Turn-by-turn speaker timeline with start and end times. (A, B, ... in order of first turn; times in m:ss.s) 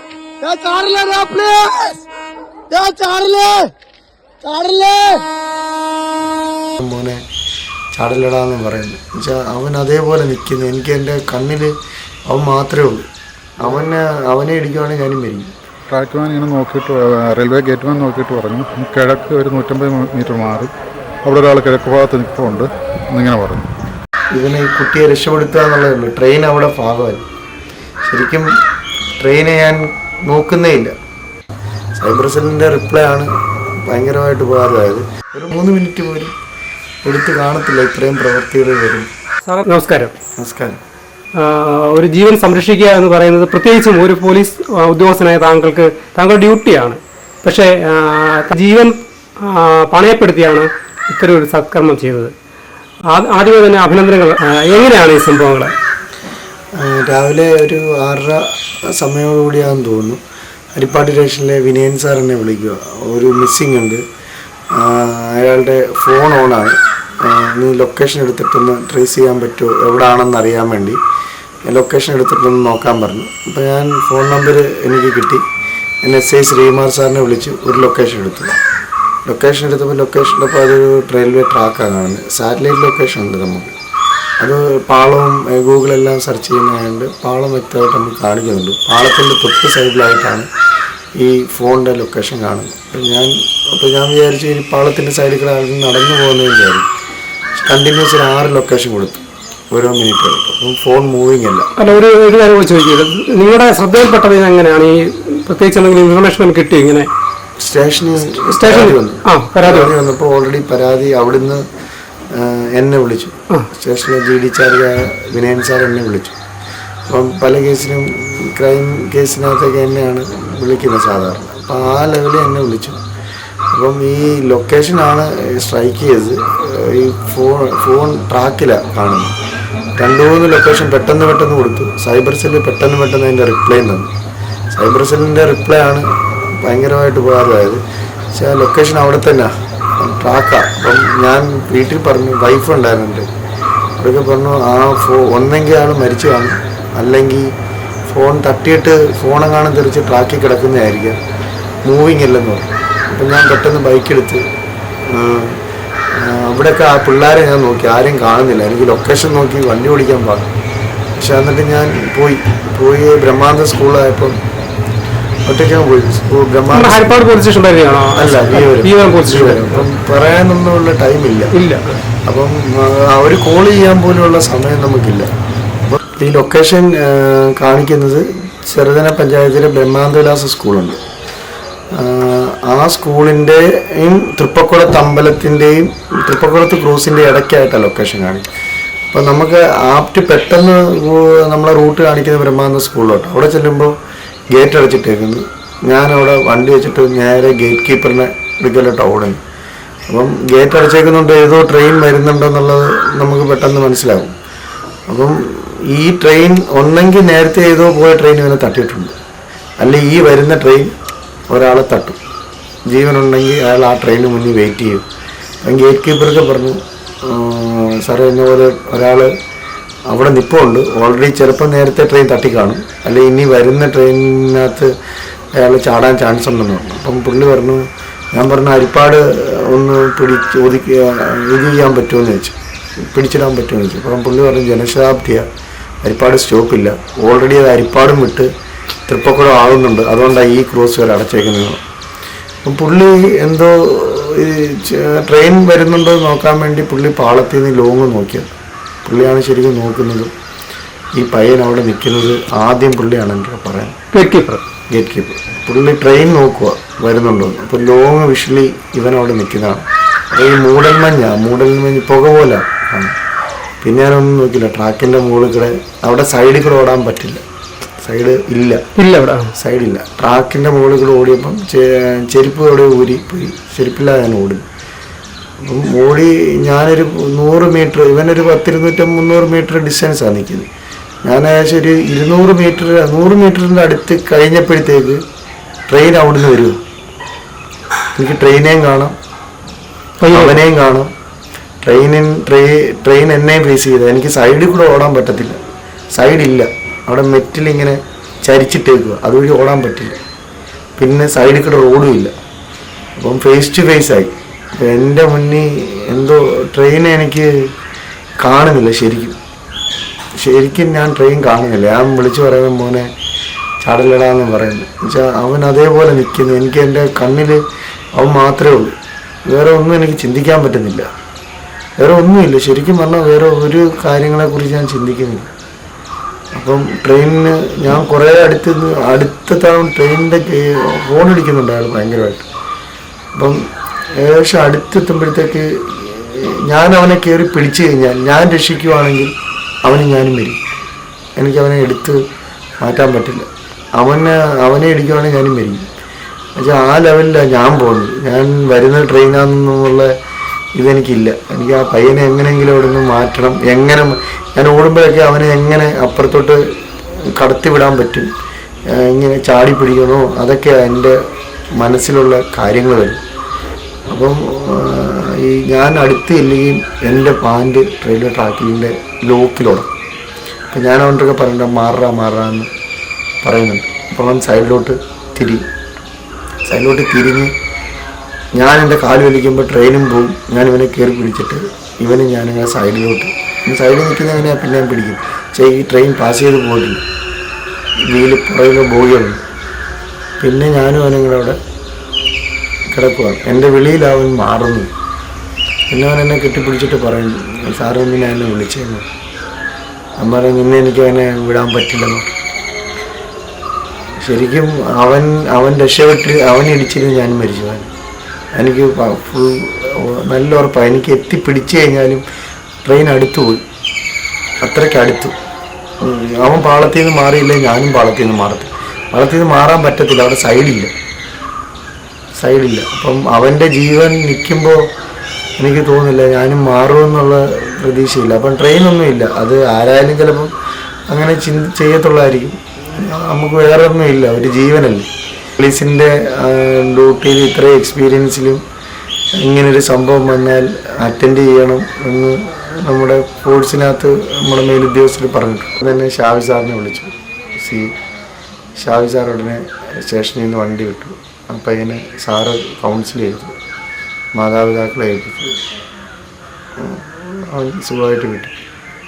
0:00.4-0:02.0 A
0:02.7-0:03.7 A
0:04.4-0:05.2 A
0:06.8-0:07.2 B
0:07.9-0:11.7 B
0:12.3-0:13.0 B
0:13.6-0:15.5 B
0:15.9-0:20.7 C
0:21.2-0:23.7 C
0:24.3-0:27.2 B
0:28.0-0:28.5 B
0:29.2-0:30.9 B
0:32.0-0:36.3 B
0:37.0-0:39.1 B
0:39.4-0:40.1 D
0:40.4-0:40.8 B
0:41.4-0:52.3 D
0:53.1-0:55.7 D
0:56.8-1:00.2 B
1:00.8-1:04.0 B
1:04.8-1:11.0 B
1:11.7-1:15.4 B
1:16.0-1:18.5 B
1:19.2-1:23.8 B
1:24.4-1:30.5 B
1:31.2-1:36.9 B
1:37.6-1:41.7 B
1:41.8-1:47.1 D
1:47.6-1:51.6 B
1:48.6-1:49.9 D
1:52.3-1:56.4 B
1:57.1-2:03.0 B
2:03.7-2:09.3 B
2:10.0-2:14.1 B
2:14.7-2:17.8 B
2:18.3-2:23.3 B
2:24.0-2:27.5 B
2:28.1-2:31.2 B
2:31.8-2:34.4 B
2:35.1-2:35.6 B
2:36.1-2:40.5 B
2:41.2-2:44.4 B
2:45.4-2:47.1 B
2:46.7-2:49.8 D
2:48.1-2:51.5 B
2:51.5-2:52.0 D
2:52.2-2:55.3 B
2:55.9-3:01.0 B
3:01.9-3:08.5 B
3:09.1-3:13.9 B
3:14.5-3:19.4 B
3:20.1-3:24.3 B
3:25.1-3:29.1 B
3:29.8-3:30.9 B
3:31.5-3:32.2 B
3:32.9-3:35.0 B
3:35.7-3:39.3 B
3:40.1-3:44.9 B
3:45.6-3:55.5 B
3:56.0-3:58.5 B
3:59.1-4:01.8 B
4:02.6-4:08.5 B
4:09.0-4:10.3 B
4:11.2-4:13.9 B
4:14.1-4:14.6 D
4:14.9-4:23.1 B
4:23.8-4:27.4 B
4:28.0-4:28.8 B
4:29.0-4:29.5 D
4:29.6-4:34.6 B
4:35.6-4:40.7 B
4:41.2-4:45.2 B
4:45.9-4:46.8 B
4:48.2-4:49.1 B
4:50.2-4:50.6 D
4:50.3-4:51.1 B
4:51.8-4:55.6 B
4:56.2-5:00.2 B
5:01.0-5:02.3 B
5:03.2-5:07.5 B
5:08.4-5:09.4 B
5:10.4-5:13.1 B
5:13.8-5:17.6 B
5:18.2-5:18.9 B
5:19.5-5:21.0 B
5:22.0-5:25.5 B
5:26.5-5:32.5 B
5:34.2-5:39.3 B
5:39.8-5:40.6 B
5:41.4-5:42.2 B
5:42.8-5:43.5 B
5:44.0-5:45.8 B
5:46.6-5:50.1 B
5:50.8-5:56.6 B
5:57.3-5:58.3 B
5:58.9-6:01.2 B
6:01.8-6:03.2 B
6:04.1-6:09.9 B
6:10.7-6:12.7 B
6:13.4-6:15.6 B
6:16.7-6:17.5 B
6:18.6-6:27.0 B
6:28.1-6:29.4 B
6:30.4-6:31.6 B
6:32.9-6:34.9 B
6:35.9-6:39.0 B
6:40.2-6:42.3 B
6:44.2-6:47.9 B
6:48.6-6:52.2 B
6:52.8-6:53.6 B
6:54.6-6:55.3 B
6:56.0-7:00.9 B
7:02.4-7:04.8 B
7:05.6-7:10.5 B
7:11.1-7:18.6 B
7:19.4-7:27.9 B
7:28.8-7:33.5 B
7:34.4-7:35.5 B
7:36.8-7:38.6 B